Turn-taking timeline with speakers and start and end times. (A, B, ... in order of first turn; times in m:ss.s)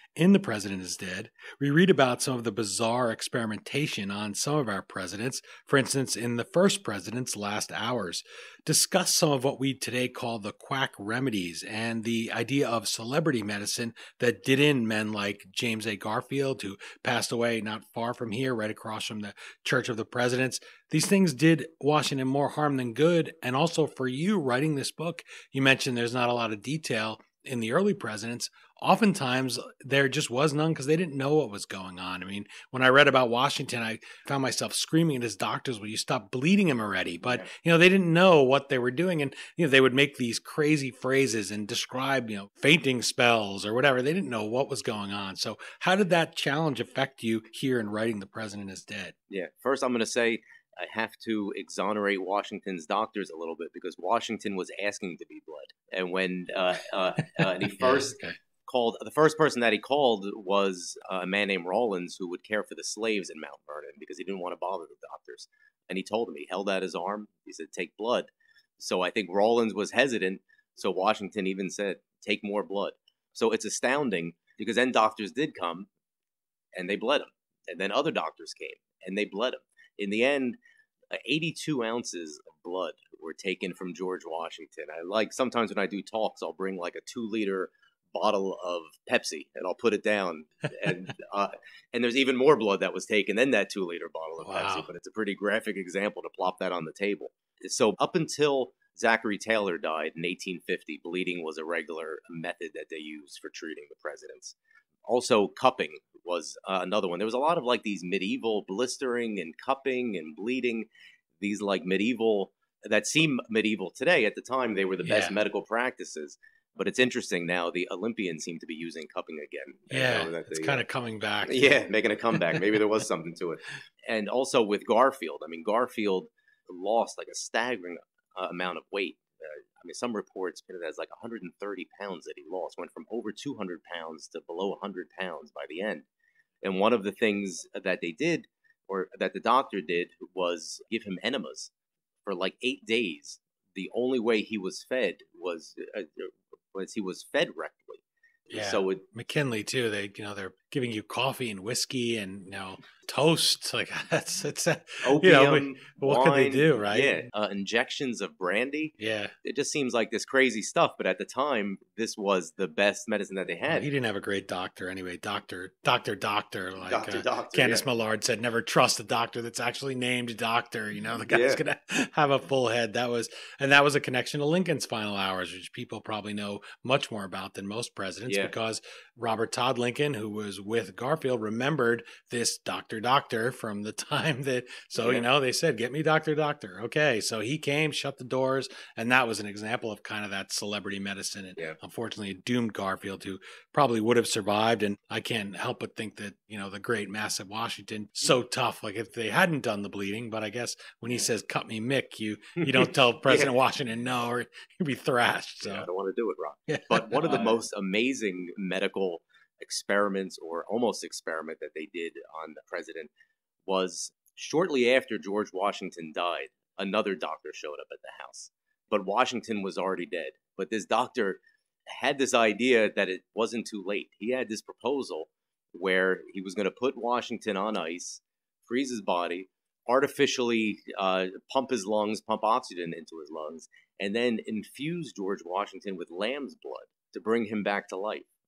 0:00.2-0:49.1 A
0:49.3-1:15.9 B
0:57.4-0:58.4 A
1:16.7-1:20.6 B
1:21.1-1:44.5 B
1:34.4-1:34.9 A
1:45.0-1:50.9 B
1:51.4-2:00.8 B
1:55.0-1:55.4 A
1:59.9-2:01.8 A
2:01.4-2:16.0 B
2:02.3-2:02.7 A
2:16.6-2:21.7 B
2:22.2-2:29.0 B
2:28.5-2:37.1 A
2:35.0-2:43.9 B
2:39.0-2:39.3 A
2:43.7-3:25.9 A
2:46.8-2:47.8 B
2:51.3-2:51.6 B
2:58.3-2:58.5 B
3:05.0-3:05.3 B
3:22.6-3:23.5 B
3:25.6-3:33.1 B
3:26.7-3:27.6 A
3:33.7-3:58.3 B